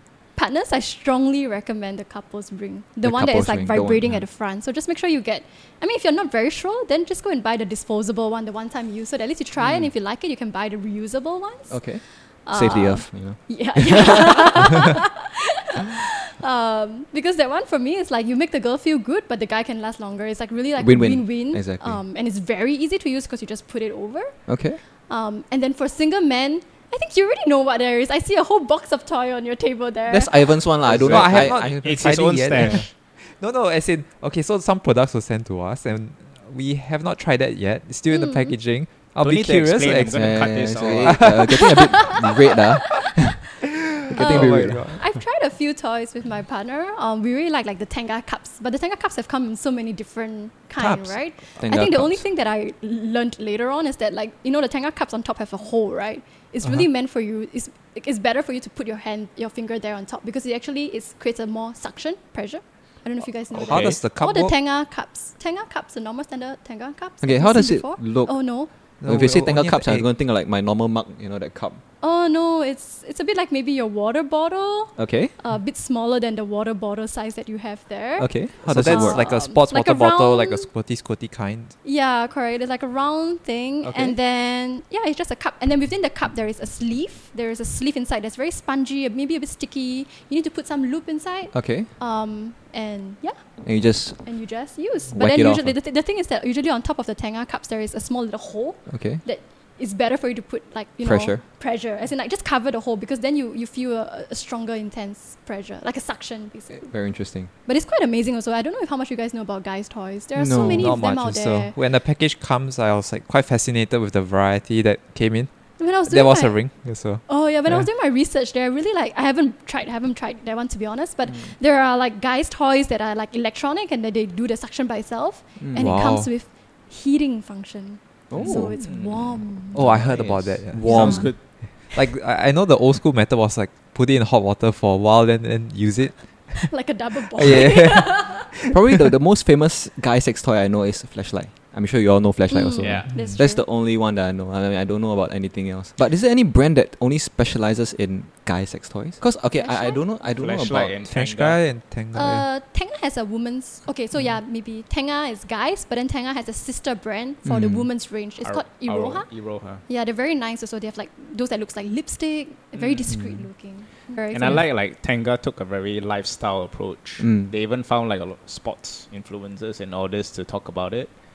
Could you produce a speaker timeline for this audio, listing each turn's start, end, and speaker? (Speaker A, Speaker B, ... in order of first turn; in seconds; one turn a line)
Speaker A: 0.4-11.8
Speaker B: 3.0-4.2
Speaker C: 9.6-9.9
Speaker B: 11.7-14.8
Speaker A: 12.4-30.6
Speaker B: 20.8-22.0
Speaker B: 24.5-24.8
Speaker B: 30.1-32.8
Speaker C: 30.8-32.9
Speaker D: 31.0-41.7
Speaker A: 38.1-38.5
Speaker C: 39.2-41.4
Speaker B: 40.1-45.0
Speaker A: 41.4-42.5
Speaker D: 44.1-45.0
Speaker A: 44.1-68.7
Speaker D: 50.8-51.2
Speaker B: 51.6-52.2
Speaker C: 63.5-64.0
Speaker D: 63.6-64.5
Speaker B: 67.2-71.8
Speaker D: 69.0-70.0
Speaker A: 72.0-80.7
Speaker B: 75.0-75.3
Speaker B: 78.2-79.3
Speaker D: 78.6-81.7
Speaker A: 81.8-93.6
Speaker B: 83.8-84.2
Speaker B: 91.5-91.9
Speaker B: 93.6-94.4
Speaker A: 94.2-106.9
Speaker B: 95.1-95.7
Speaker B: 98.9-99.2
Speaker B: 101.0-101.4
Speaker B: 106.7-107.5
Speaker A: 107.5-111.8
Speaker B: 110.3-111.0
Speaker D: 110.7-117.9
Speaker A: 115.8-130.0
Speaker B: 125.6-126.0
Speaker D: 125.8-126.3
Speaker B: 128.3-128.8
Speaker C: 128.3-131.4
Speaker D: 129.7-136.8
Speaker B: 130.7-131.3
Speaker A: 130.8-131.3
Speaker A: 136.7-138.5
Speaker D: 137.3-138.8
Speaker B: 137.4-137.7
Speaker B: 138.7-151.0
Speaker A: 142.5-143.7
Speaker C: 142.8-143.1
Speaker A: 149.6-150.1
Speaker C: 150.3-151.7
Speaker D: 151.1-152.4
Speaker A: 152.1-164.6
Speaker B: 157.4-157.9
Speaker C: 158.4-159.8
Speaker C: 162.8-163.1
Speaker B: 163.1-163.4
Speaker C: 164.3-171.1
Speaker B: 167.2-167.5